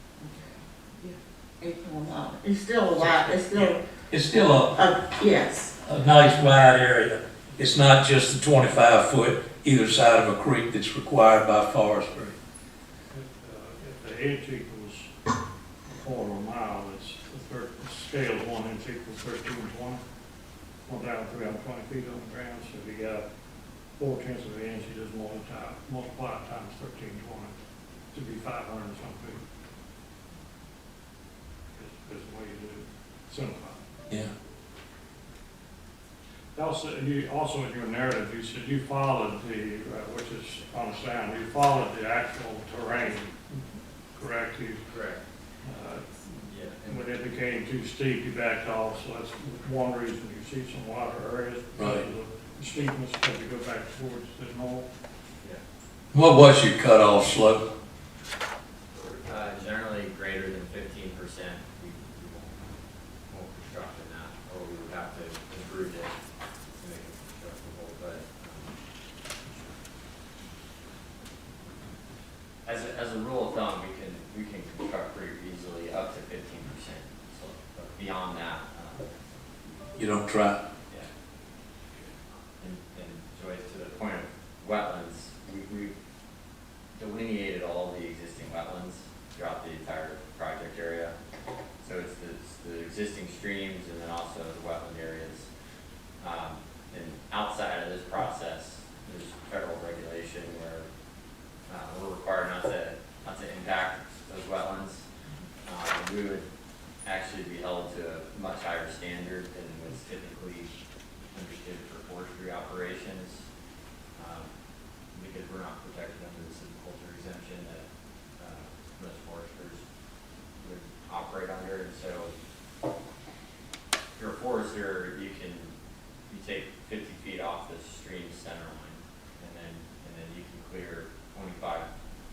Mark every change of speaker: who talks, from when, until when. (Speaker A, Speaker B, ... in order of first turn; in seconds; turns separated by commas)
Speaker A: 0.2-3.8, Speaker B: 3.0-4.8, Speaker A: 4.6-5.8, Speaker B: 5.8-12.3, Speaker C: 13.1-15.1, Speaker C: 15.8-20.0, Speaker C: 20.9-23.2, Speaker C: 24.0-27.5, Speaker C: 28.1-29.4, Speaker C: 31.7-33.8, Speaker C: 36.5-43.6, Speaker C: 44.1-44.8, Speaker D: 44.9-45.2, Speaker C: 45.6-54.9, Speaker D: 46.4-47.2, Speaker B: 51.8-52.0, Speaker B: 56.1-57.6, Speaker D: 59.2-62.6, Speaker D: 63.3-66.1, Speaker D: 66.8-68.8, Speaker D: 72.7-79.5, Speaker B: 80.0-80.6, Speaker D: 82.6-85.9, Speaker D: 86.9-91.1, Speaker D: 91.8-95.5, Speaker D: 96.2-100.9, Speaker D: 101.7-105.0, Speaker D: 105.6-106.5, Speaker D: 107.0-110.7, Speaker D: 111.3-113.5, Speaker D: 114.2-114.5, Speaker D: 115.1-119.8, Speaker D: 120.6-122.3, Speaker D: 124.2-125.7, Speaker D: 126.3-131.9